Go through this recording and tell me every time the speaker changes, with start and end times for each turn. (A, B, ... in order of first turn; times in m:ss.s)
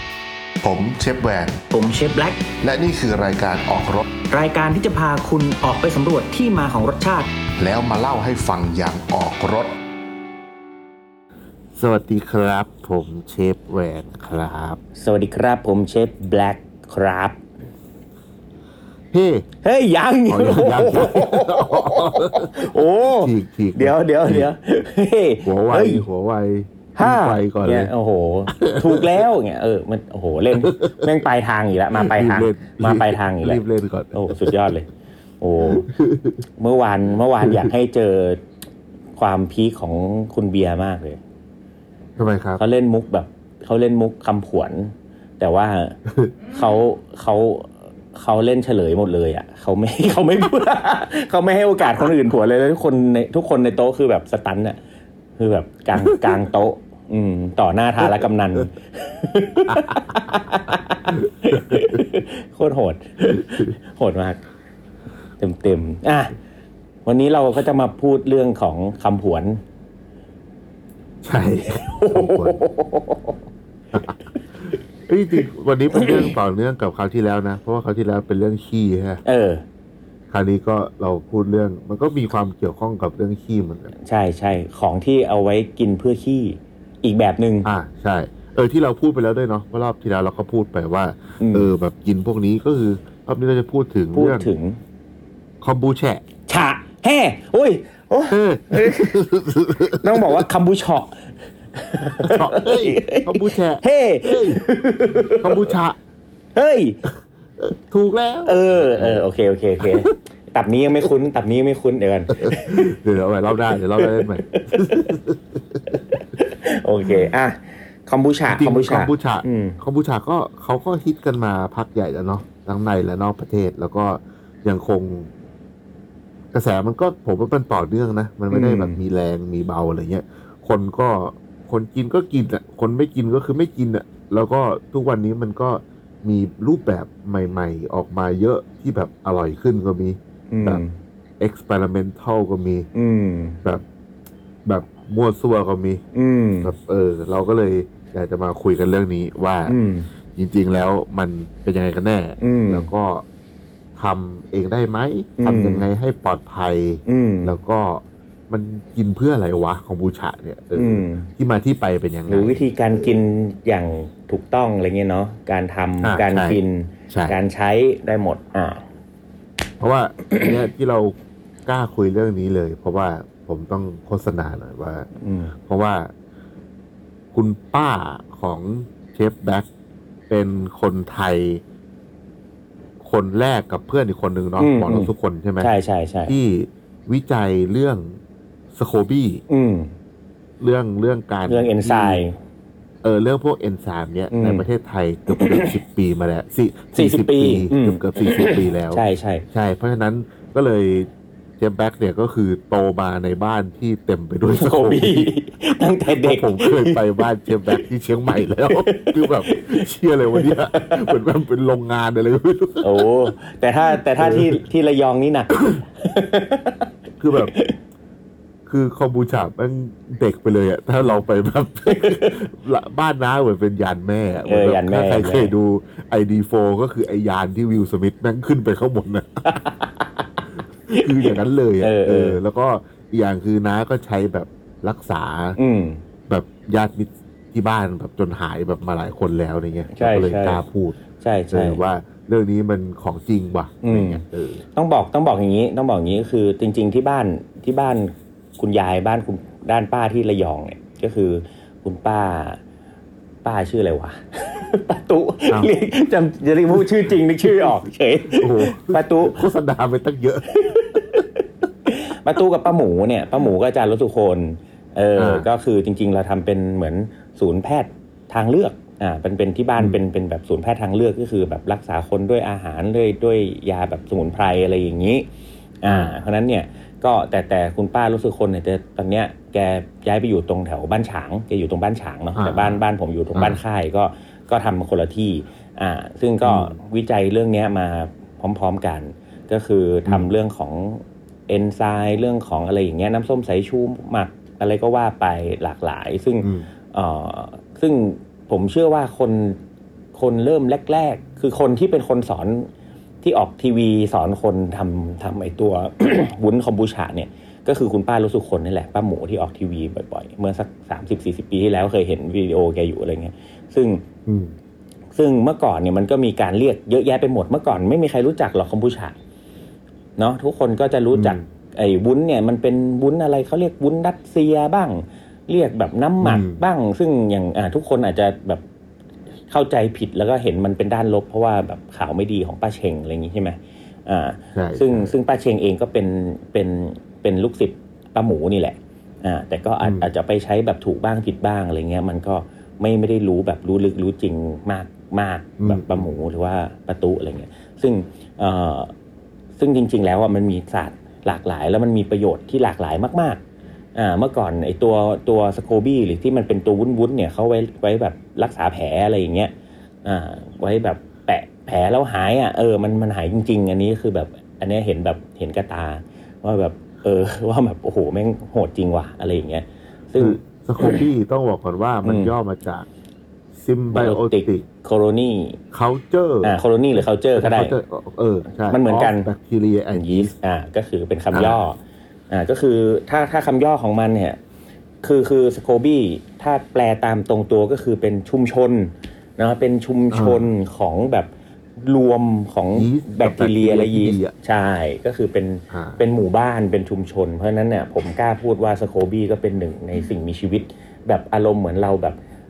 0:00.6-0:01.6 A
0:01.7-0:02.4 B
0:02.6-0:04.1 A
0:04.3-0:07.3 B
0:07.6-0:09.8 A
0:11.7-0:14.8 C
0:15.0-0:17.4 B
0:19.1-0:19.4 C
0:19.6-0:26.0 B
0:20.3-0:22.7 C
0:23.2-0:24.5 C
0:25.4-0:27.9 C
0:26.9-0:33.6 B
0:28.5-0:29.2 C
0:30.5-0:31.2 C
0:31.9-0:34.7 C
0:34.1-0:34.9 B
0:35.4-0:35.9 B
0:35.6-0:36.4 C
0:36.6-0:38.4 B
0:37.4-0:37.7 C
0:39.2-0:41.2 B
0:42.2-0:42.6 C
0:42.6-0:46.0 B
0:46.1-0:46.3 C
0:46.5-0:54.8 B
0:55.4-1:04.4 B
0:56.0-0:56.4 C
1:01.1-1:02.0 C
1:05.4-1:06.3 B
1:07.0-1:09.6 B
1:11.2-1:12.6 C
1:11.7-1:13.4 B
1:13.9-1:19.2 C
1:15.9-1:16.3 B
1:19.2-1:19.6 B
1:20.3-1:23.9 C
1:24.0-1:27.7 B
1:27.6-1:34.5 C
1:31.4-1:31.7 B
1:34.1-1:34.8 B
1:35.6-1:36.2 C
1:36.5-1:39.2 B
1:38.3-1:40.4 C
1:39.9-1:45.8 B
1:42.2-1:44.6 C
1:45.3-1:46.0 C
1:46.5-1:47.0 B
1:47.6-1:49.2 C
1:48.4-1:52.9 B
1:49.8-1:50.1 C
1:52.4-1:56.0 C
1:54.0-1:55.1 B
1:55.9-1:59.8 B
1:58.5-2:05.3 C
2:06.5-2:20.8 C
2:08.5-2:09.0 B
2:20.5-2:20.9 B
2:21.4-2:22.9 C
2:22.9-2:23.6 B
2:24.6-2:26.0 C
2:26.1-2:26.7 B
2:26.6-2:29.8 C
2:29.7-2:30.1 B
2:30.3-2:33.2 C
2:32.4-2:32.9 B
2:34.0-2:43.2 C
2:35.4-2:35.8 B
2:37.0-2:37.6 B
2:40.7-2:41.3 B
2:42.3-2:48.8 B
2:46.0-2:47.4 C
2:49.8-2:51.1 C
2:51.6-2:55.1 C
2:55.2-2:55.5 B
2:55.6-2:56.1 C
2:57.3-2:59.7 C
3:00.3-3:01.6 C
3:03.0-3:05.7 C
3:04.6-3:06.3 B
3:06.3-3:08.2 C
3:08.7-3:09.4 C
3:09.5-3:09.9 B
3:10.6-3:12.2 C
3:11.4-3:12.3 B
3:13.0-3:25.3 C
3:14.3-3:14.6 B
3:15.3-3:15.7 B
3:16.9-3:19.4 B
3:24.5-3:27.8 B
3:26.1-3:33.1 C
3:28.7-3:31.1 B
3:32.8-3:37.8 B
3:34.2-3:34.6 C
3:37.2-3:37.5 C
3:38.6-3:49.4 C
3:41.9-3:42.4 B
3:44.4-3:45.5 B
3:49.4-3:52.4 B
3:50.9-3:55.6 C
3:55.6-3:56.0 B
3:56.3-4:01.0 C
3:59.9-4:00.6 B
4:01.2-4:01.8 B
4:01.5-4:04.6 C
4:03.8-4:04.2 B
4:04.7-4:12.6 B
4:13.4-4:19.4 B
4:16.7-4:17.7 C
4:18.3-4:21.2 C
4:20.5-4:35.3 B
4:25.2-4:25.5 C
4:35.8-4:59.6 B
4:35.9-4:36.2 C
4:42.3-4:42.8 C
4:46.4-4:46.8 C
4:56.4-4:56.7 C
5:00.1-5:02.7 B
5:03.2-5:14.0 B
5:14.2-5:14.5 C
5:15.1-5:19.1 B
5:20.2-5:28.6 B
5:21.1-5:21.4 C
5:26.2-5:26.6 C
5:29.5-5:48.9 B
5:34.5-5:35.1 C
5:39.8-5:40.1 C
5:45.6-5:46.0 C
5:49.6-5:53.4 B
5:53.9-5:59.5 B
6:00.0-6:11.0 B
6:10.2-6:12.9 C
6:12.0-6:12.3 B
6:13.5-6:14.6 C
6:13.9-6:15.6 B
6:15.7-6:20.3 C
6:16.4-6:17.8 B
6:18.5-6:19.3 B
6:19.9-6:21.8 B
6:21.3-6:21.6 C
6:22.3-6:24.4 B
6:25.0-6:42.2 B
6:30.1-6:30.5 C
6:32.7-6:34.3 C
6:35.7-6:36.0 C